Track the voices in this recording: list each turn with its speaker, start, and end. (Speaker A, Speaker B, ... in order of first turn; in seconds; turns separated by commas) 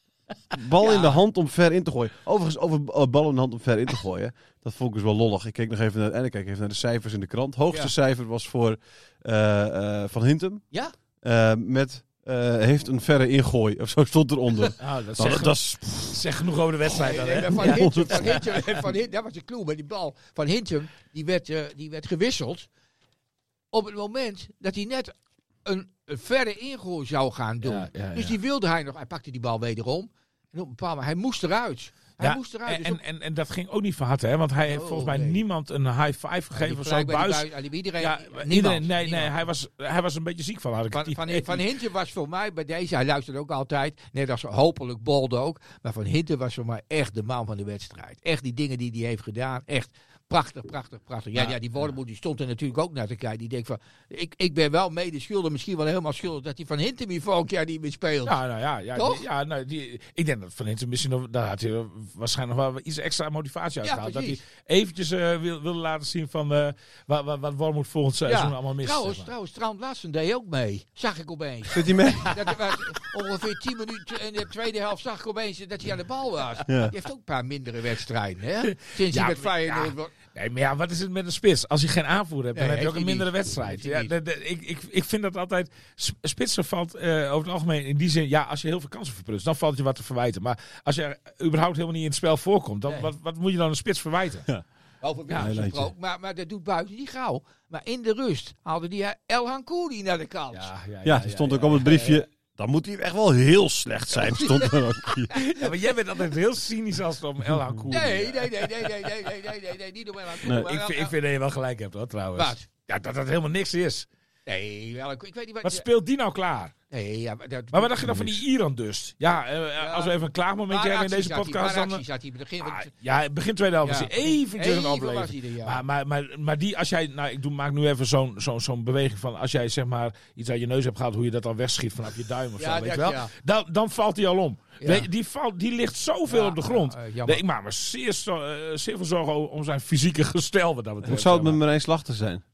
Speaker A: 0.5-16.2, Speaker B: 0.8-1.2, Speaker C: 14.8-18.8, Speaker B: 16.9-22.7, Speaker A: 17.6-18.2, Speaker B: 23.7-33.0, Speaker C: 27.6-28.4, Speaker C: 32.2-37.5, Speaker B: 34.7-35.4, Speaker B: 36.5-39.3, Speaker C: 38.0-41.6, Speaker B: 40.9-58.4, Speaker C: 58.2-69.3, Speaker B: 58.9-59.2, Speaker B: 63.8-64.4, Speaker B: 68.2-80.1, Speaker A: 71.7-72.4, Speaker A: 76.7-76.9, Speaker C: 78.7-94.5, Speaker B: 82.5-84.1, Speaker B: 95.0-100.7, Speaker A: 95.3-95.9, Speaker C: 100.5-102.2, Speaker A: 101.0-105.5, Speaker B: 104.5-104.8, Speaker C: 105.4-109.3, Speaker A: 107.6-107.9, Speaker B: 107.9-111.1, Speaker C: 110.4-114.0, Speaker B: 112.3-112.6, Speaker B: 114.5-115.8, Speaker C: 115.6-116.7, Speaker B: 116.9-118.2, Speaker C: 117.7-122.0, Speaker A: 118.0-118.4, Speaker B: 119.8-120.2, Speaker B: 120.7-122.9, Speaker C: 122.6-141.6, Speaker B: 123.8-125.8, Speaker B: 132.6-133.3, Speaker B: 134.8-135.1, Speaker B: 136.3-137.4, Speaker A: 141.0-142.4